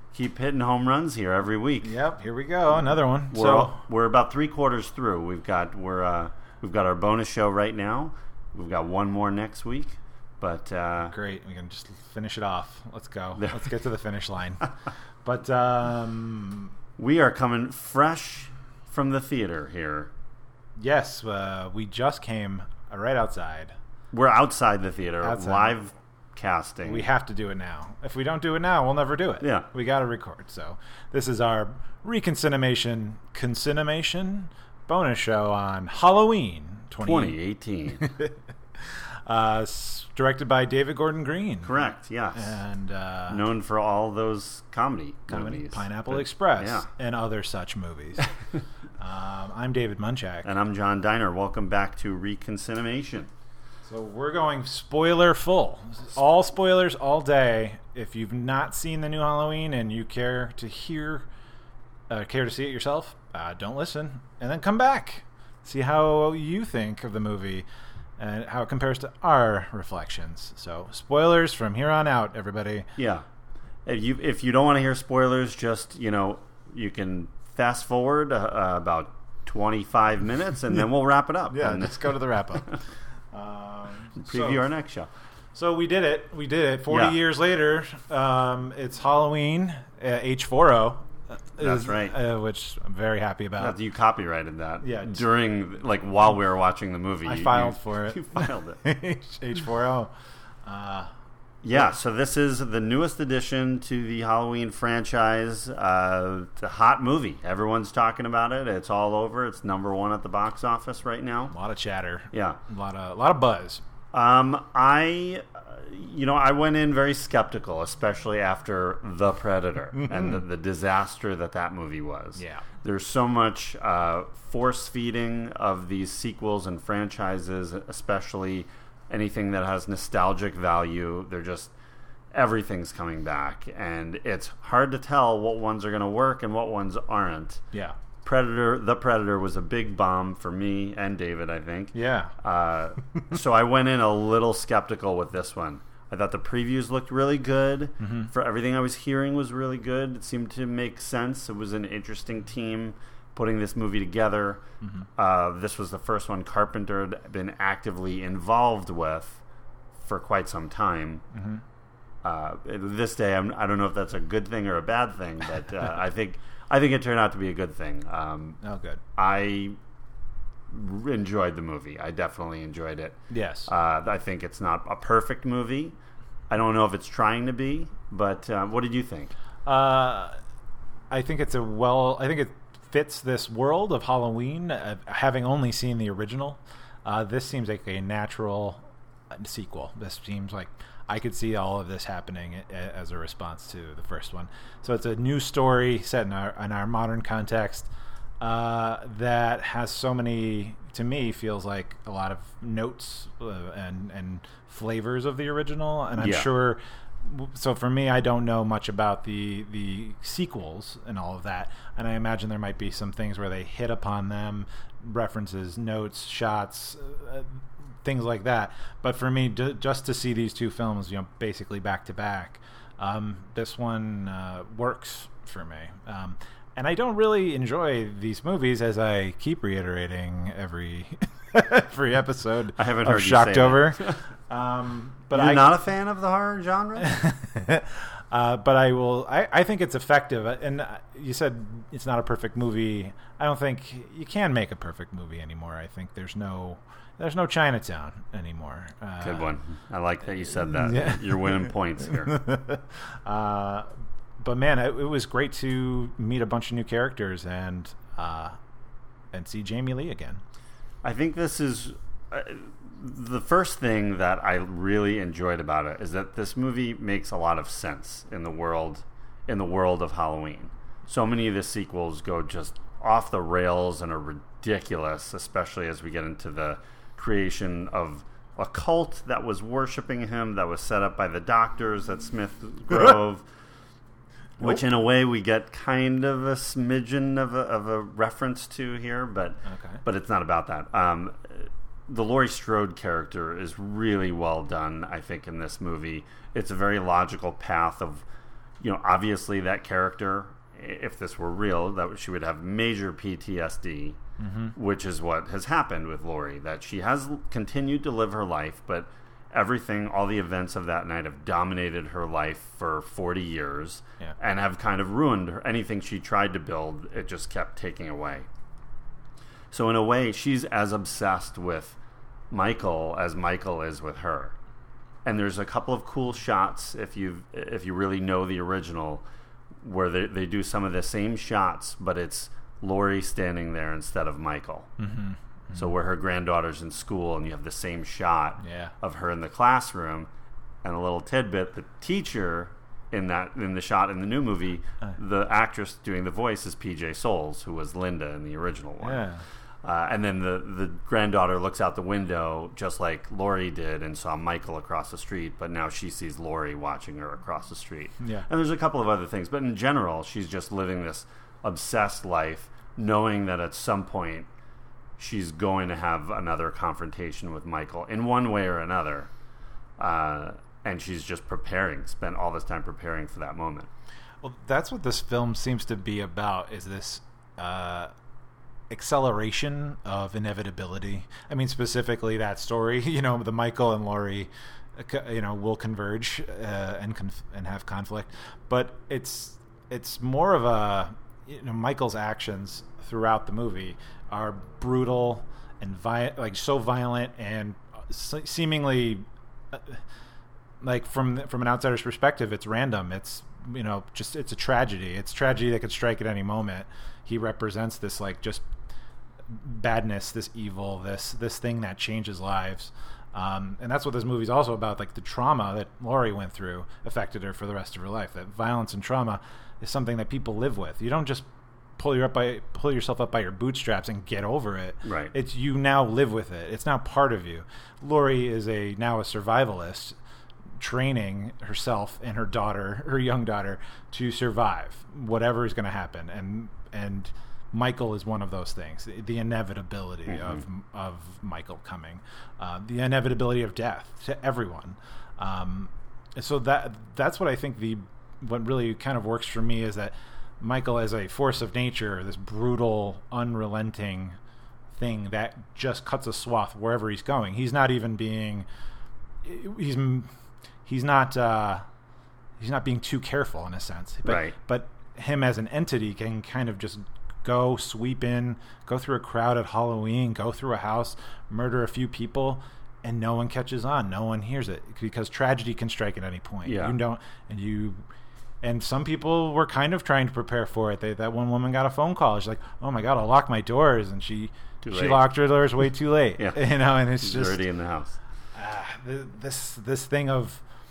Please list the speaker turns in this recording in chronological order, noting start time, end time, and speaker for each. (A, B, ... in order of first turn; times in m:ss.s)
0:00.1-0:01.9 A
0:01.8-0:03.8 B
0:02.8-0:11.1 A
0:11.0-0:14.7 B
0:15.2-0:16.7 B
0:17.0-0:20.1 A
0:20.8-0:23.8 B
0:24.1-0:27.1 A
0:25.2-0:25.8 B
0:26.8-0:37.4 B
0:29.4-0:29.7 A
0:37.0-0:38.1 A
0:38.0-0:41.8 B
0:41.6-0:42.5 A
0:42.3-0:43.4 B
0:43.3-0:46.9 A
0:45.3-0:48.3 B
0:49.0-0:50.5 B
0:50.4-0:53.3 A
0:53.9-1:01.3 B
1:02.1-1:07.7 B
1:08.2-1:12.9 B
1:13.0-1:13.2 A
1:13.9-1:22.8 A
1:21.5-1:24.6 B
1:24.2-1:25.1 A
1:25.6-1:33.8 B
1:26.9-1:27.2 A
1:31.6-1:32.2 A
1:33.6-1:38.8 A
1:34.8-1:35.2 B
1:37.2-1:40.1 B
1:40.7-1:41.1 B
1:41.6-1:51.5 A
1:51.5-1:53.8 B
1:52.3-1:52.6 A
1:54.1-2:11.7 A
2:02.4-2:02.6 B
2:12.3-2:17.6 A
2:18.2-2:34.6 A
2:21.9-2:22.3 B
2:28.0-2:28.3 B
2:34.8-2:35.1 B
2:35.2-2:39.4 A
2:40.0-2:41.2 A
2:41.3-2:41.6 B
2:42.2-2:48.6 A
2:48.6-2:49.0 B
2:49.2-2:49.8 A
2:50.7-2:56.0 A
2:53.3-2:53.7 B
2:56.5-2:59.3 A
2:59.7-3:00.4 B
3:01.1-3:17.9 B
3:18.4-3:55.8 B
3:26.2-3:26.5 A
3:52.8-3:54.2 A
3:55.3-3:57.1 A
3:57.0-4:09.5 B
4:09.2-4:12.4 A
4:10.6-4:18.6 B
4:19.3-4:20.4 B
4:21.0-4:43.5 A
4:44.6-4:58.3 A
4:49.6-4:50.0 B
4:58.8-5:04.2 A
5:04.4-5:04.7 B
5:04.8-5:18.5 A
5:19.7-5:22.0 A
5:22.5-5:24.6 A
5:25.2-5:29.2 A
5:29.8-5:34.9 A
5:35.0-5:35.9 B
5:35.8-5:40.3 A
5:38.6-5:38.9 B
5:40.8-5:49.2 A
5:49.0-5:49.4 B
5:49.8-6:04.5 A
5:58.2-5:58.5 B
6:05.2-6:09.3 A
6:10.0-6:13.9 A
6:14.4-6:18.1 B
6:18.9-6:40.0 B
6:40.8-6:48.7 B
6:49.5-7:01.5 B
7:02.0-7:10.2 B
7:05.0-7:05.3 A
7:10.8-7:34.4 B
7:20.3-7:20.6 A
7:35.0-7:38.7 B
7:39.4-7:40.3 B
7:40.9-7:41.8 B
7:42.6-7:58.0 B
7:44.3-7:44.6 A
7:56.7-7:57.0 A
7:58.6-8:07.6 B
8:04.8-8:05.3 A
8:07.2-8:08.2 A
8:08.6-8:10.6 B